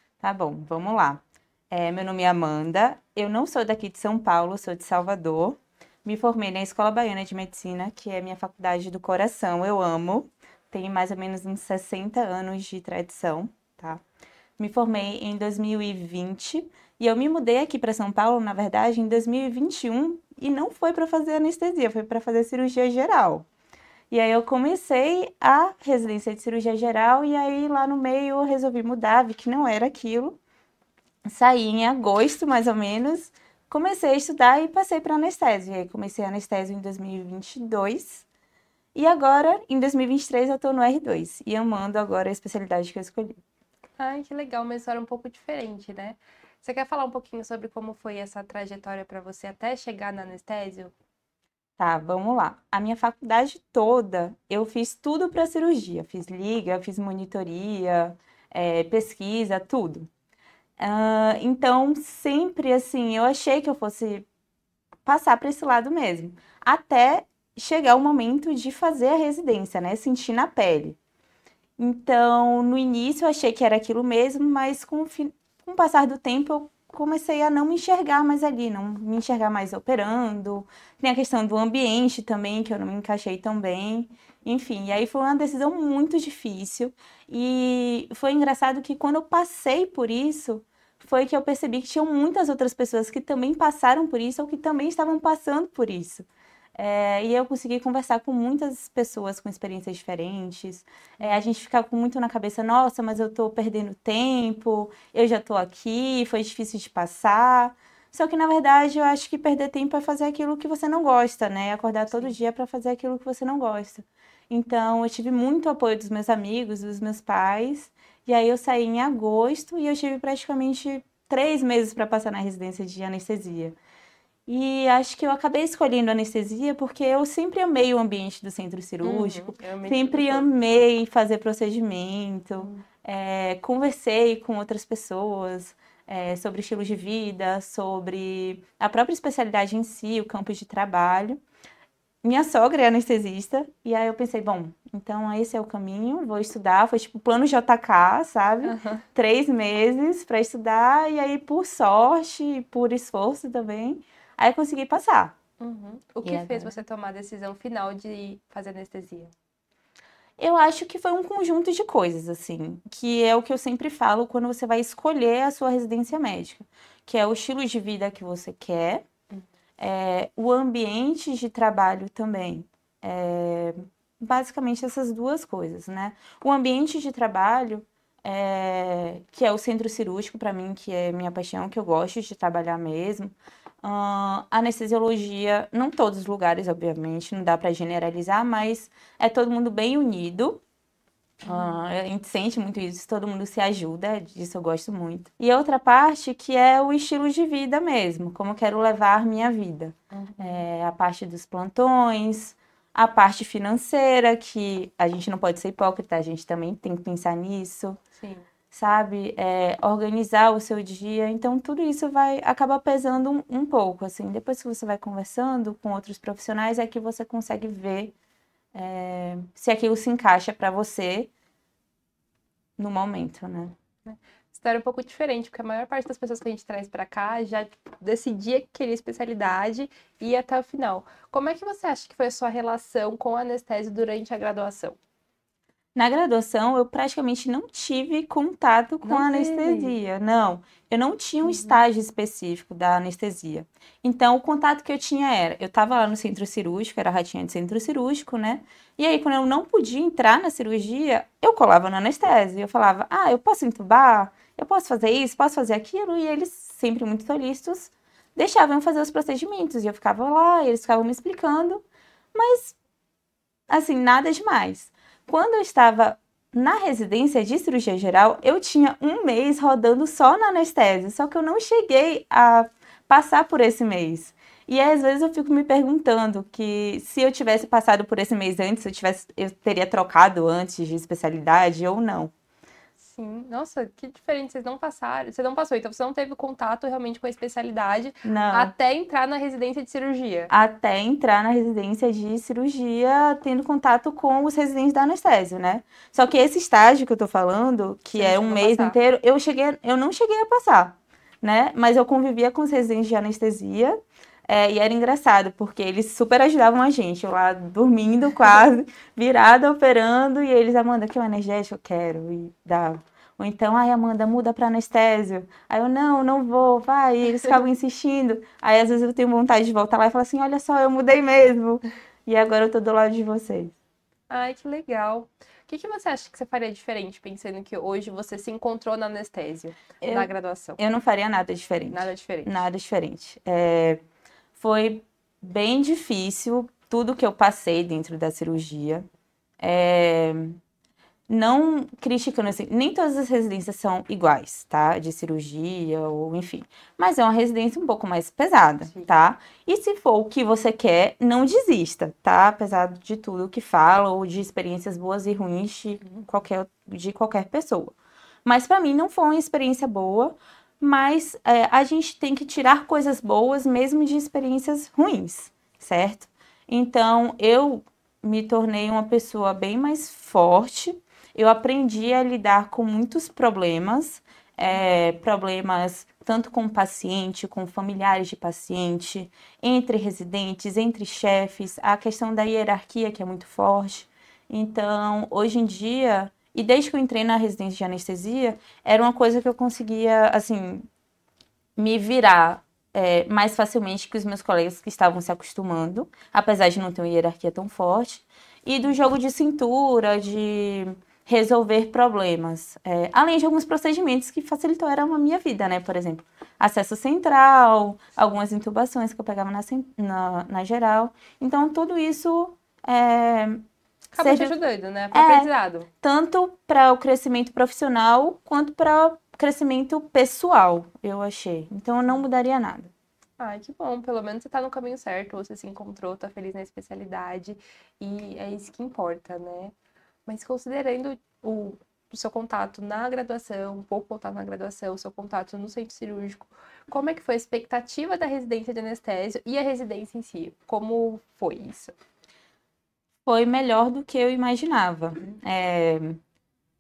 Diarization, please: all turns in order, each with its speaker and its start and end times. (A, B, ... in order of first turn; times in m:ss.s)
0:00.2-0:14.0 A
0:14.6-0:23.4 A
0:24.1-0:30.4 A
0:31.2-0:38.2 A
0:38.9-0:43.4 A
0:44.0-0:50.9 B
0:51.8-1:00.1 A
1:00.8-1:04.3 A
1:05.0-1:11.0 A
1:11.8-2:03.8 A
2:04.5-2:21.4 A
2:09.0-2:10.5 B
2:12.6-2:12.8 B
2:22.2-2:35.4 A
2:28.6-2:29.0 B
2:35.6-2:39.3 B
2:36.2-2:36.8 A
2:40.4-2:49.0 A
2:49.8-3:10.6 A
3:11.4-3:28.0 A
3:11.4-3:11.8 B
3:20.1-3:20.6 B
3:28.2-3:28.5 B
3:28.7-3:38.1 A
3:38.7-3:41.3 A
3:42.8-3:43.8 A
3:44.0-3:55.0 B
3:55.9-4:22.8 A
3:59.0-3:59.9 B
4:01.4-4:01.8 B
4:23.7-4:42.3 A
4:43.0-4:50.5 B
4:48.2-4:48.7 A
4:50.5-5:23.7 A
4:58.1-4:59.0 B
5:24.3-5:30.8 B
5:30.0-5:34.0 A
5:31.9-5:32.6 B
5:34.6-5:39.0 A
5:39.6-5:40.6 A
5:41.3-6:30.9 A
6:31.8-6:53.6 A
6:54.1-6:55.9 B
6:54.2-6:54.5 A
6:55.1-6:55.5 A
6:56.0-7:02.9 A
7:03.4-7:09.7 B
7:10.2-7:22.0 B
7:23.2-7:26.2 A